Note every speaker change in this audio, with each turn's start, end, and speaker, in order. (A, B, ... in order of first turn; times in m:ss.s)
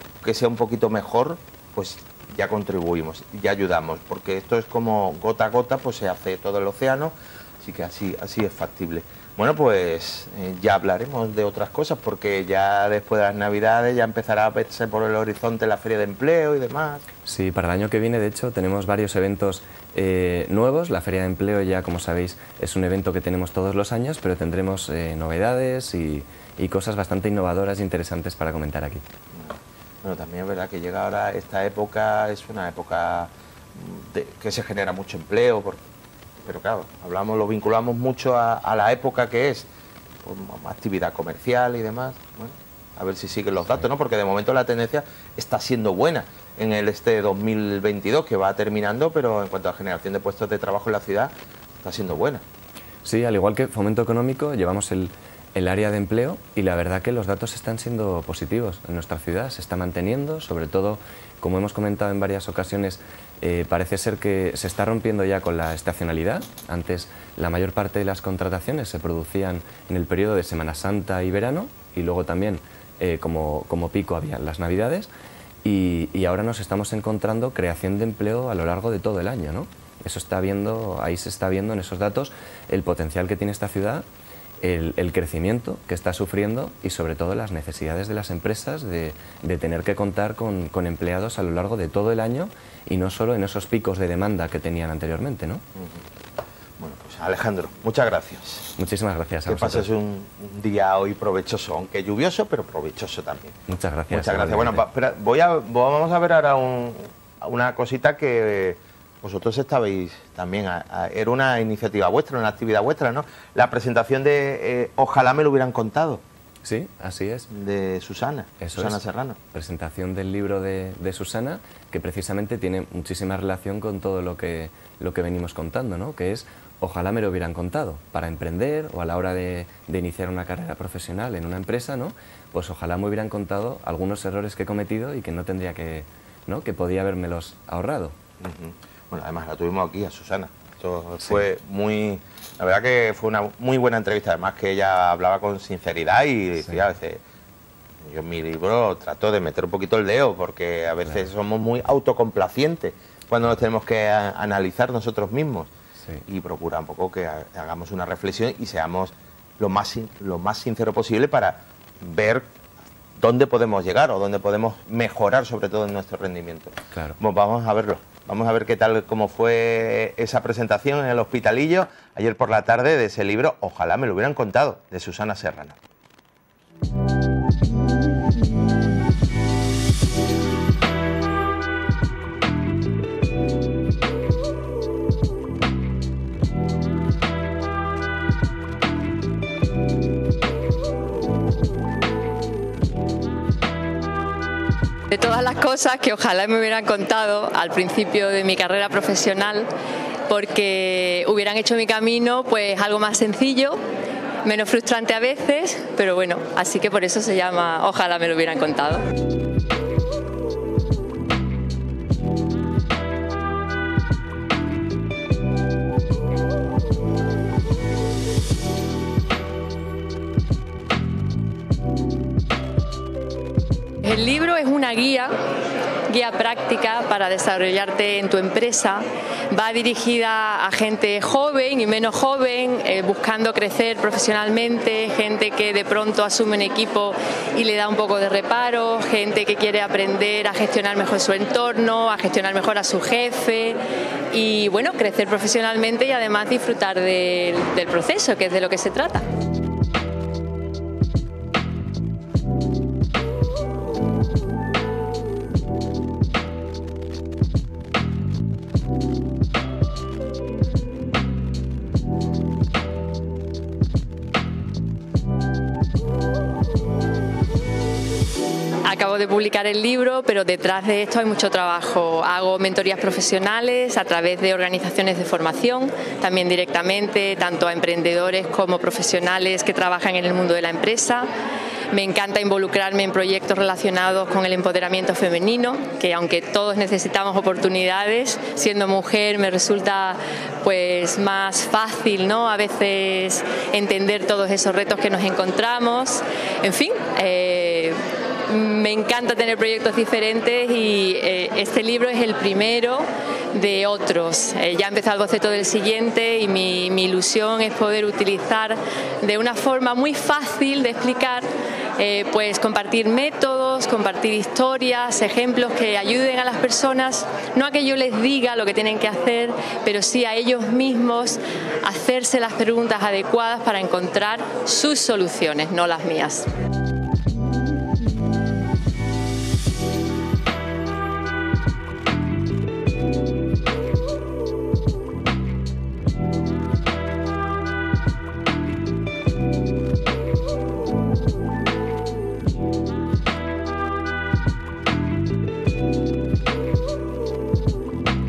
0:00.2-0:17.0 A
0:17.2-0:29.0 B
0:29.3-0:35.8 A
0:36.4-0:39.7 A
0:40.2-0:51.3 A
0:51.8-0:52.4 A
0:53.0-1:15.1 B
1:15.6-1:24.1 B
1:24.6-1:35.6 B
1:35.8-1:36.0 A
1:36.8-1:38.8 A
1:38.8-1:39.9 B
1:39.5-1:43.6 A
1:43.7-1:44.8 B
1:44.1-1:56.2 A
1:56.6-1:57.5 B
1:57.5-1:59.4 A
1:58.6-1:59.0 B
1:59.5-2:18.2 B
2:18.4-2:27.2 A
2:28.0-2:35.7 A
2:36.3-2:42.5 A
2:43.2-2:55.8 A
2:46.9-2:47.2 B
3:15.1-3:19.7 C
3:20.3-3:23.8 C
3:24.4-3:29.0 C
3:44.0-3:45.4 C
3:46.1-4:03.8 C
4:04.3-4:09.3 C
4:28.8-4:41.3 C
4:41.9-5:26.5 C